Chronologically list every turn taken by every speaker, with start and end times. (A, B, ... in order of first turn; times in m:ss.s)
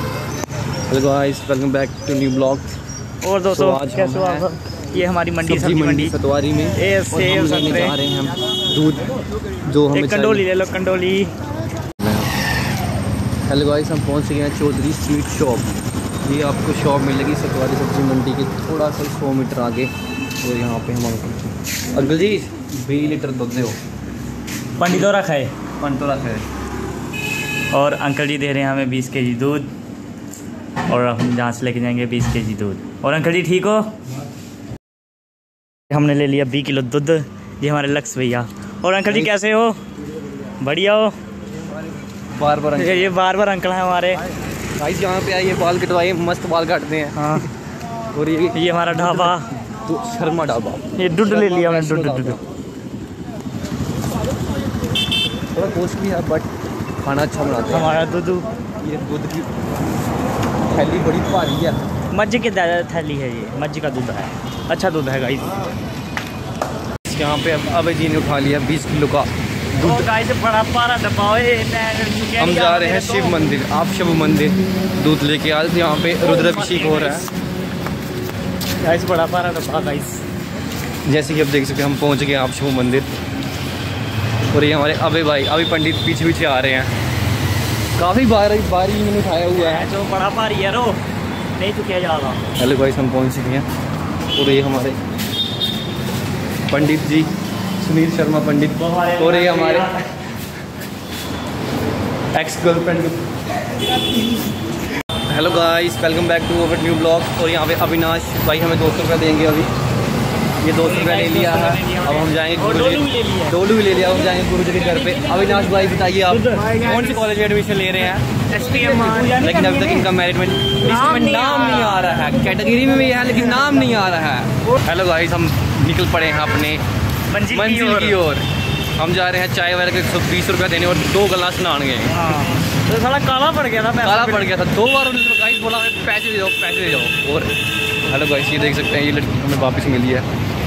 0:00.9-0:02.8 A
0:03.2-0:06.1 B
0:03.5-0:04.5 A
0:05.4-0:10.4 A
0:06.8-0:08.0 B
0:09.9-0:11.3 B
0:12.0-0:12.3 A
0:13.5-0:23.8 A
0:24.8-0:25.5 B
0:24.8-0:25.1 A
0:25.8-0:26.4 A
0:27.7-0:29.7 B
0:30.9-0:33.9 B
0:35.9-0:39.8 B
0:39.1-0:39.3 A
0:40.6-0:41.2 B
0:42.3-0:43.2 A
0:42.7-0:44.2 B
0:44.8-0:47.5 A
0:47.2-0:47.5 B
0:48.1-0:52.4 A
0:48.5-0:49.5 B
0:51.0-0:52.4 B
0:55.5-0:56.5 A
0:57.0-0:58.0 A
0:57.7-0:58.4 B
0:58.8-0:59.6 A
1:00.7-1:01.8 A
1:02.1-1:05.6 B
1:07.0-1:10.0 A
1:09.8-1:13.3 B
1:12.4-1:17.3 A
1:16.2-1:17.3 B
1:18.8-1:20.2 B
1:21.0-1:23.1 A
1:24.5-1:26.9 A
1:28.0-1:29.9 A
1:29.6-1:31.0 B
1:31.6-1:32.4 B
1:32.6-1:33.7 A
1:34.3-1:35.0 A
1:36.7-1:40.0 A
1:38.8-1:40.0 B
1:42.3-1:43.2 A
1:45.3-1:49.7 A
1:50.6-1:58.2 A
1:50.8-1:53.6 B
1:54.8-1:57.0 B
1:58.5-2:00.1 B
1:59.1-2:06.8 A
2:00.8-2:02.0 B
2:07.3-2:08.2 B
2:07.5-2:08.4 A
2:08.9-2:12.3 A
2:12.1-2:14.5 B
2:14.0-2:17.5 A
2:18.1-2:20.3 A